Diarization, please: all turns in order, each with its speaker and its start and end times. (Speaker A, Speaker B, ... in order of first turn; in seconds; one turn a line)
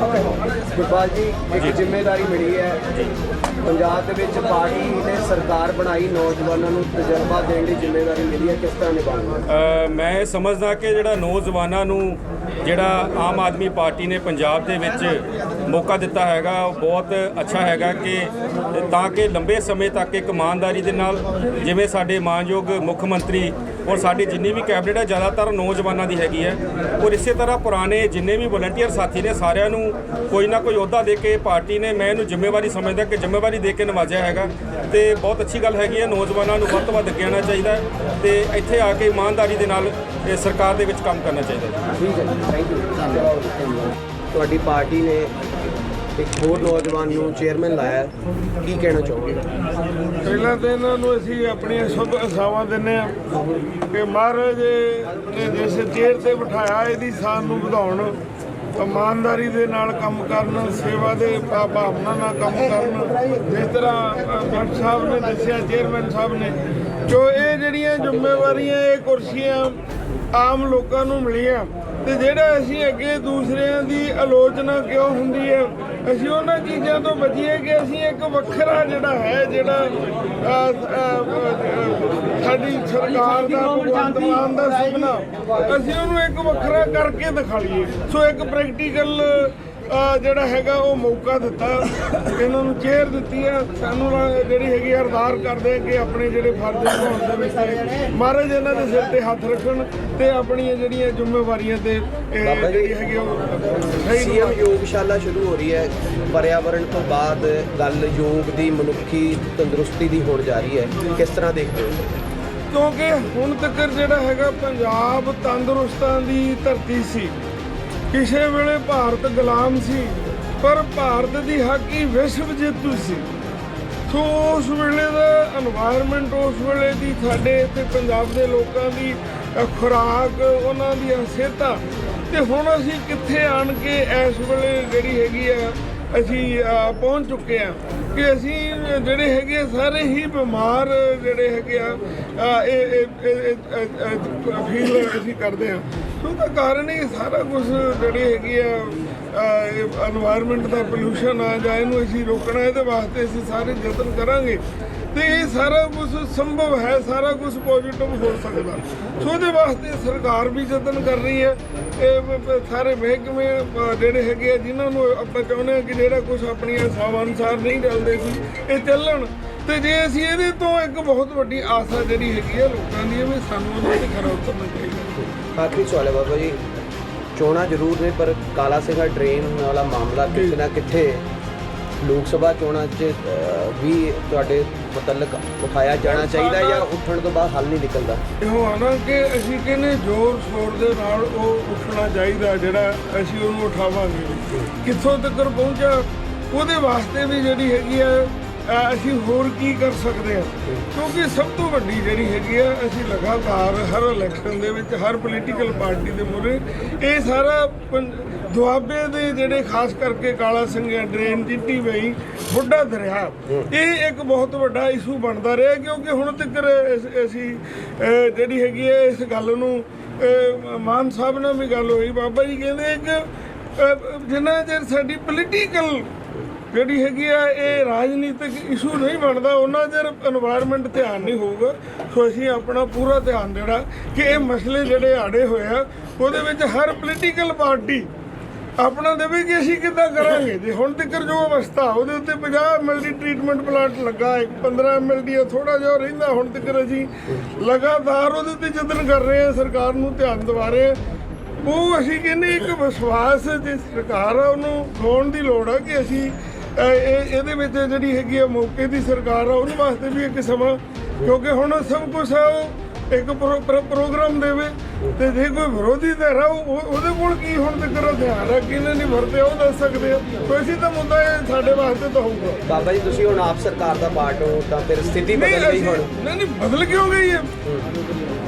Speaker A: 0.7-2.8
Speaker A: 3.6-9.4
Speaker B: 9.5-41.8
Speaker A: 42.0-45.3
Speaker A: 46.1-49.5
Speaker C: 50.2-53.2
Speaker C: 53.9-58.2
Speaker C: 58.8-69.8
Speaker C: 70.3-104.7
Speaker A: 102.4-102.9
Speaker A: 104.0-112.0
Speaker C: 112.7-117.3
Speaker C: 118.1-123.3
Speaker C: 124.1-154.6
Speaker C: 155.1-175.1
Speaker A: 175.2-176.6
Speaker A: 177.3-181.2
Speaker A: 182.0-188.2
Speaker C: 186.1-186.9
Speaker C: 188.4-226.1
Speaker C: 226.7-238.1
Speaker C: 238.8-251.0
Speaker C: 251.6-272.6
Speaker A: 272.6-276.1
Speaker C: 275.3-277.5
Speaker A: 277.6-277.9